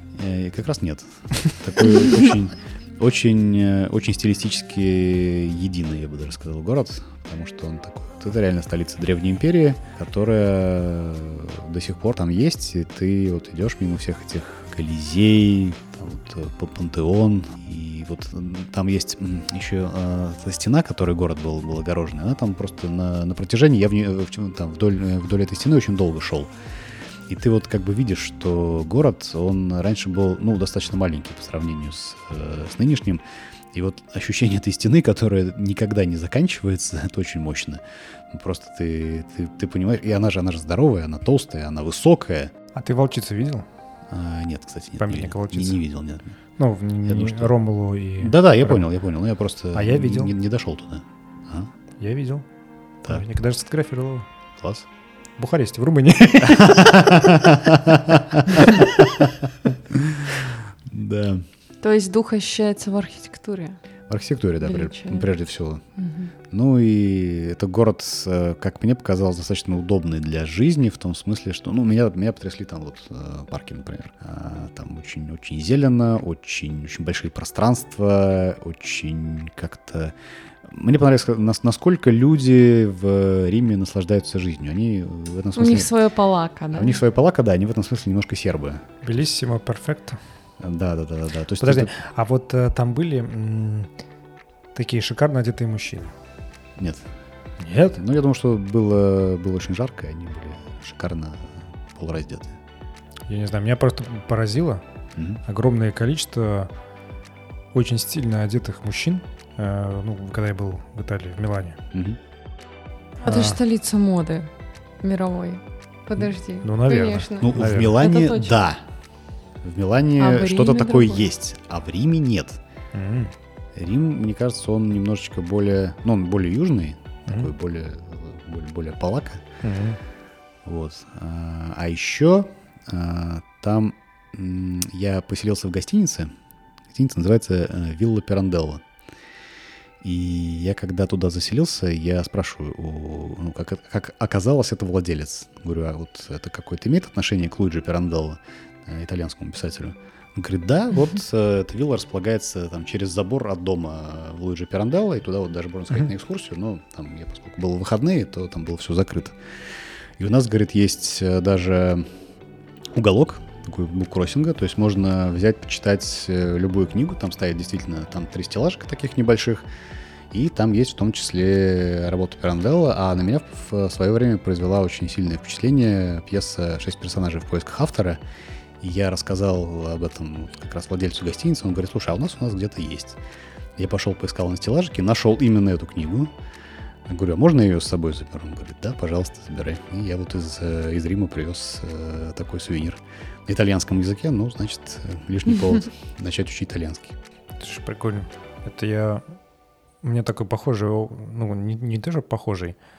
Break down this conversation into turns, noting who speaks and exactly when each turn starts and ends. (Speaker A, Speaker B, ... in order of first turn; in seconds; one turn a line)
Speaker A: 0.1-26.5
Speaker A: 27.3-33.2
Speaker A: 33.7-42.5
Speaker B: 42.7-43.6
Speaker A: 44.1-46.4
Speaker B: 45.0-45.8
Speaker B: 46.6-48.9
Speaker A: 47.1-47.5
Speaker A: 48.2-51.7
Speaker B: 49.7-50.4
Speaker B: 52.0-52.5
Speaker B: 53.0-54.2
Speaker A: 54.6-54.9
Speaker B: 55.4-57.3
Speaker A: 56.4-61.5
Speaker B: 58.5-58.9
Speaker C: 61.8-63.8
Speaker A: 64.1-65.8
Speaker C: 64.6-65.3
Speaker C: 66.0-66.3
Speaker A: 66.5-85.9
Speaker C: 85.5-87.0
Speaker A: 86.7-88.8
Speaker B: 89.0-90.2
Speaker A: 90.6-91.9
Speaker B: 91.6-93.9
Speaker B: 94.7-96.1
Speaker A: 96.8-97.1
Speaker B: 97.6-98.0
Speaker A: 97.9-102.6
Speaker B: 103.3-104.8
Speaker A: 105.2-105.4
Speaker B: 105.4-106.7
Speaker B: 107.7-111.8
Speaker A: 111.9-112.2
Speaker B: 113.2-113.6
Speaker C: 113.2-114.5
Speaker C: 115.0-118.6
Speaker B: 116.2-118.0
Speaker A: 117.4-118.9
Speaker A: 119.6-122.6
Speaker C: 120.2-121.3
Speaker B: 122.9-123.3
Speaker A: 123.7-129.4
Speaker B: 129.6-130.0
Speaker A: 130.6-136.3
Speaker A: 136.9-138.9
Speaker A: 140.0-162.1
Speaker A: 162.9-169.7
Speaker A: 170.3-178.2
Speaker A: 178.8-183.2
Speaker A: 183.8-186.3
Speaker A: 187.1-197.1
Speaker B: 197.6-199.2
Speaker B: 200.0-202.8